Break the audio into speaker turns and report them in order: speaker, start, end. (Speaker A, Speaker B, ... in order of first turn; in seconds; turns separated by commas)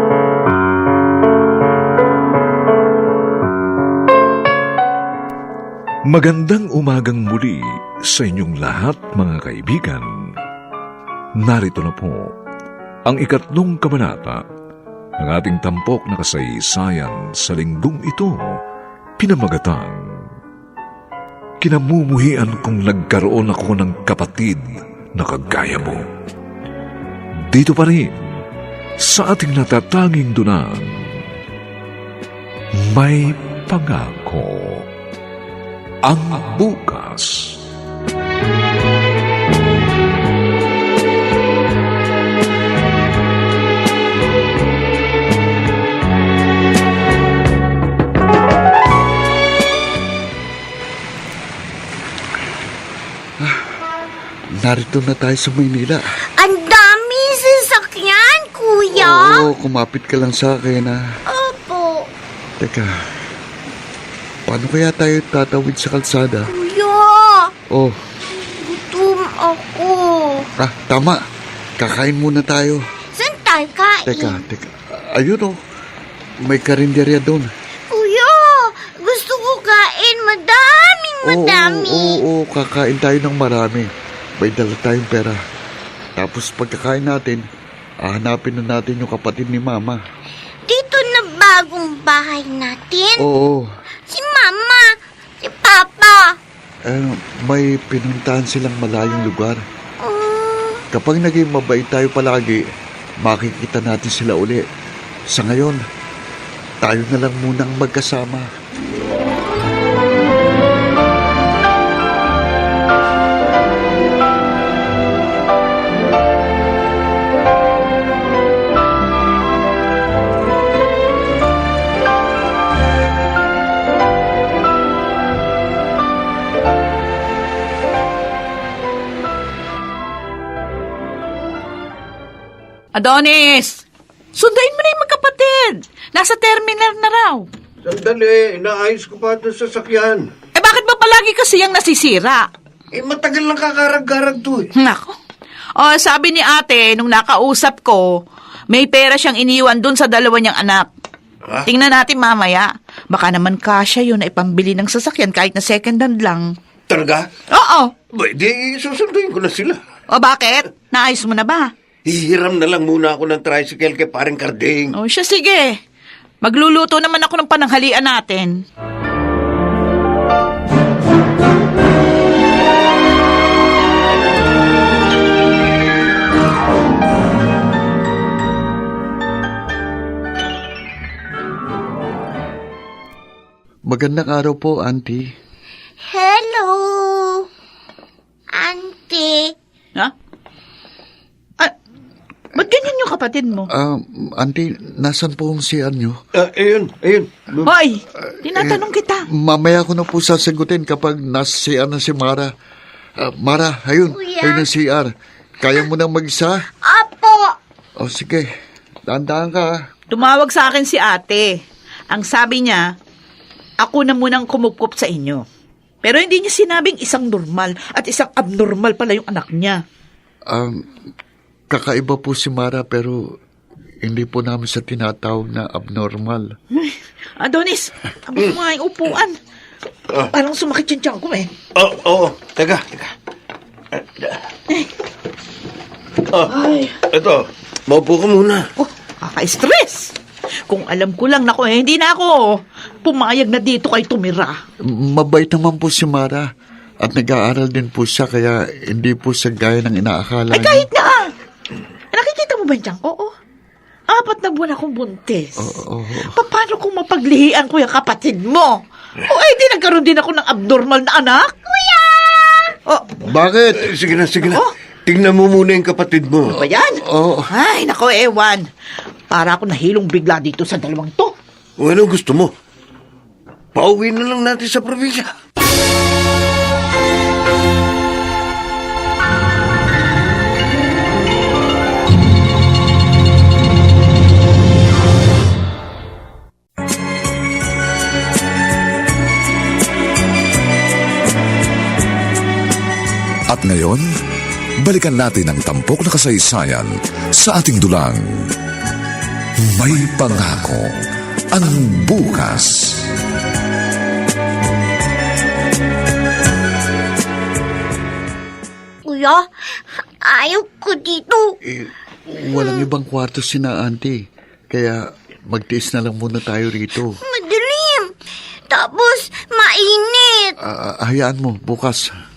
Speaker A: 6.1-10.1, Speaker A: 11.4-12.3, Speaker A: 13.1-14.4, Speaker A: 15.2-18.5, Speaker A: 19.2-20.0, Speaker A: 21.6-26.0, Speaker A: 27.5-28.2, Speaker A: 29.0-31.2, Speaker A: 32.9-34.9, Speaker A: 36.0-37.6, Speaker B: 54.6-56.0, Speaker C: 56.4-59.5, Speaker B: 58.9-61.0, Speaker C: 61.3-62.1, Speaker B: 62.6-62.9, Speaker B: 64.5-66.5, Speaker C: 66.5-67.5, Speaker B: 67.7-68.0, Speaker C: 68.3-70.5, Speaker B: 70.6-71.2, Speaker B: 71.8-72.8, Speaker C: 73.1-74.4, Speaker B: 74.0-75.6, Speaker B: 76.5-77.5, Speaker C: 77.9-82.2, Speaker B: 81.2-83.9, Speaker B: 84.4-85.4, Speaker B: 86.2-87.4, Speaker B: 88.0-90.0, Speaker C: 90.7-93.3, Speaker B: 93.2-93.7, Speaker C: 94.1-96.4, Speaker B: 96.9-99.6, Speaker C: 100.0-100.8, Speaker B: 100.9-102.6, Speaker B: 103.2-104.6, Speaker B: 105.3-105.8, Speaker B: 106.8-108.5, Speaker D: 132.9-137.5, Speaker E: 137.8-140.3, Speaker D: 140.6-142.5, Speaker E: 142.9-144.7, Speaker D: 144.8-145.2, Speaker D: 145.8-148.1, Speaker D: 148.7-150.9, Speaker D: 151.7-156.5, Speaker E: 156.9-157.3, Speaker D: 157.5-157.9, Speaker E: 158.1-159.8, Speaker D: 160.1-161.7, Speaker E: 162.1-164.9, Speaker D: 164.9-165.8, Speaker D: 166.4-168.6, Speaker B: 183.9-185.2, Speaker C: 186.0-187.5, Speaker C: 188.5-189.6, Speaker D: 192.5-193.7, Speaker B: 193.7-196.2, Speaker E: 196.3-197.7, Speaker D: 197.7-199.3, Speaker B: 198.5-198.8, Speaker B: 199.3-202.5, Speaker B: 203.2-205.1, Speaker C: 204.2-204.7, Speaker B: 205.6-206.7, Speaker C: 206.8-207.6, Speaker B: 208.0-208.5, Speaker B: 209.1-209.7, Speaker D: 210.1-212.8, Speaker D: 213.8-215.4, Speaker D: 216.0-219.8, Speaker B: 220.5-220.8, Speaker B: 221.7-223.2, Speaker B: 224.0-226.5, Speaker D: 226.8-229.3, Speaker D: 230.3-231.5, Speaker E: 231.8-233.1, Speaker E: 234.0-234.4, Speaker D: 236.5-237.0, Speaker E: 237.1-238.7, Speaker D: 238.8-240.1, Speaker D: 240.7-244.6, Speaker B: 244.9-246.5, Speaker B: 247.0-250.9, Speaker D: 250.5-251.3, Speaker D: 252.1-253.3, Speaker D: 254.1-255.7, Speaker B: 255.6-256.4, Speaker D: 256.3-261.7, Speaker C: 261.8-262.6, Speaker D: 262.9-263.2, Speaker B: 263.2-263.9, Speaker E: 263.8-266.6, Speaker D: 264.4-264.7, Speaker D: 266.5-268.7, Speaker B: 267.1-267.5, Speaker D: 269.3-271.3, Speaker E: 271.8-272.5, Speaker E: 273.8-275.3, Speaker F: 293.5-294.1, Speaker F: 294.8-298.5, Speaker F: 299.6-300.9, Speaker F: 301.5-303.1, Speaker C: 309.1-311.6, Speaker B: 311.7-314.2, Speaker C: 312.6-312.8, Speaker B: 314.7-317.2, Speaker C: 317.2-318.1, Speaker C: 318.7-320.6, Speaker B: 320.6-322.1